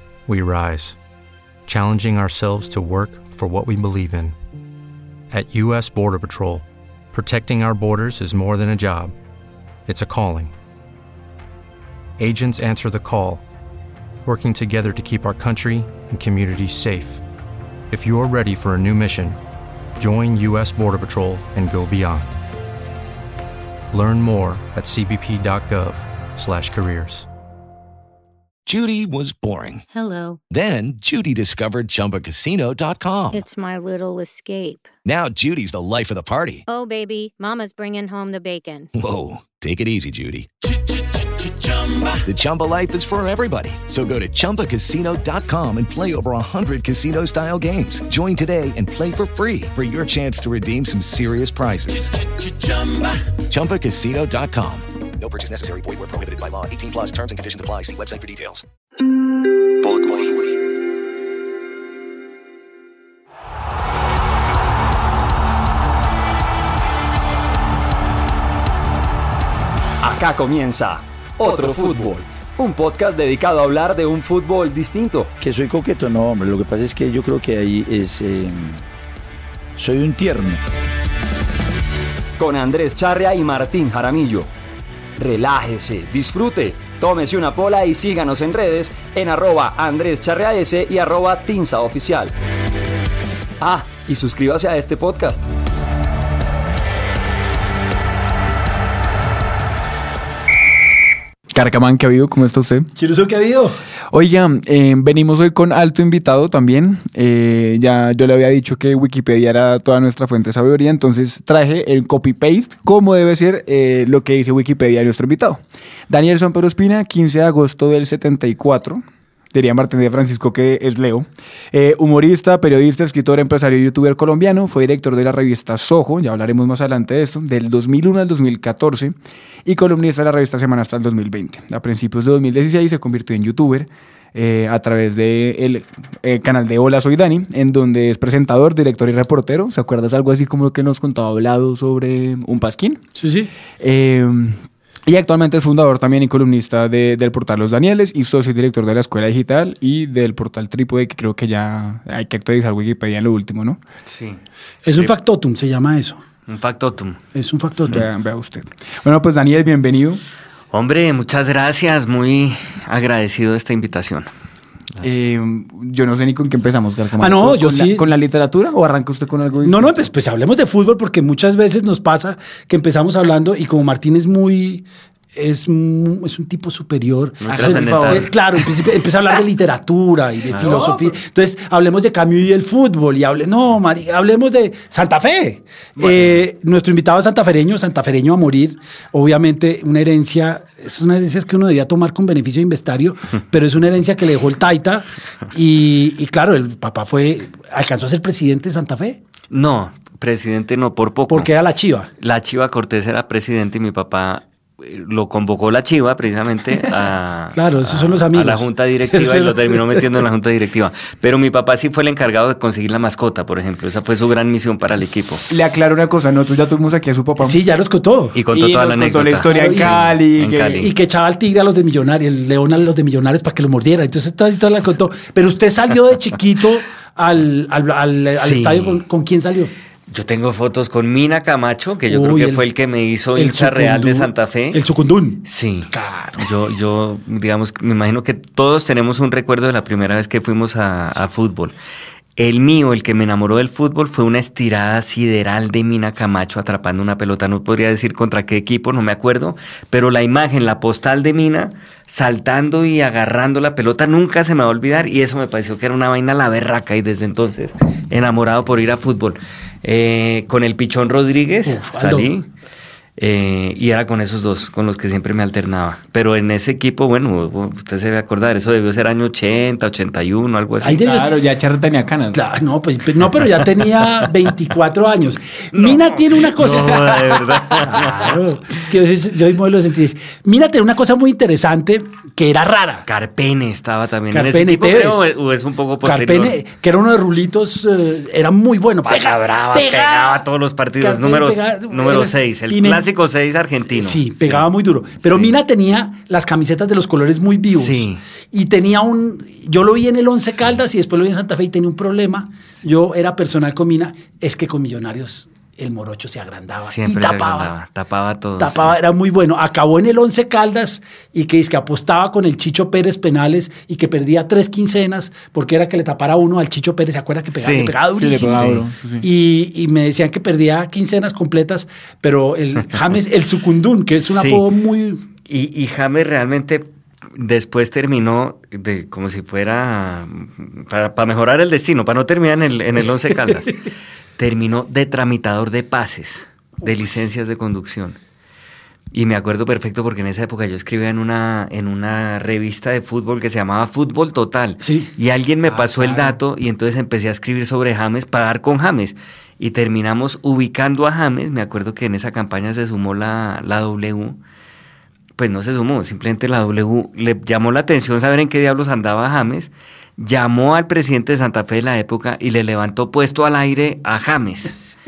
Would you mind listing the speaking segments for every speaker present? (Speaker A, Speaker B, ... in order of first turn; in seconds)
Speaker A: 0.3-0.9, 1.7-4.3, 5.3-9.1, 9.8-10.5, 12.2-13.4, 14.2-17.2, 17.9-19.4, 20.0-22.3, 23.9-27.2
Speaker B: 28.6-29.9, 30.5-33.4, 35.0-36.6, 38.9-40.5, 41.8-58.6, 60.0-60.2
Speaker C: 29.9-30.4, 33.3-34.9, 36.7-38.9
Speaker D: 70.0-75.3, 82.4-84.5, 85.2-92.3, 93.6-95.5
Speaker E: 75.4-78.8, 79.8-80.6
Speaker F: 101.5-102.9, 104.1-143.0, 143.8-153.8, 157.8-160.2, 165.0-170.0, 177.5-178.3, 180.5-181.2, 186.0-186.4, 215.5-217.6, 218.5-220.8, 271.0-272.4, 318.1-319.3
Speaker G: 102.9-103.8, 143.2-143.5, 154.8-156.2, 157.3-158.0, 167.2-168.1, 169.6-199.2, 201.3-202.1, 207.5-210.2, 217.4-218.4, 219.5-220.1, 220.7-229.7, 232.1-232.7, 233.3-236.4, 261.6-262.3, 270.8-271.3, 272.3-283.1, 284.3-285.3, 286.0-290.4, 291.0-293.1, 293.9-307.7, 308.6-325.2, 344.8-345.1, 345.7-346.4
Speaker H: 154.1-154.4, 156.5-157.2, 160.7-164.3, 177.4-178.3, 180.5-181.0, 199.5-201.5, 202.2-215.5, 218.3-220.9, 228.4-229.0, 230.1-234.8, 235.4-241.7, 242.4-262.5, 263.2-271.1, 275.7-278.3, 283.1-286.6, 289.1-294.7, 295.2-295.6, 297.7-298.2, 306.8-308.9, 317.5-317.9, 318.5-318.8, 324.3-324.6, 325.5-333.8, 334.4-338.2, 339.1-354.4, 355.4-364.7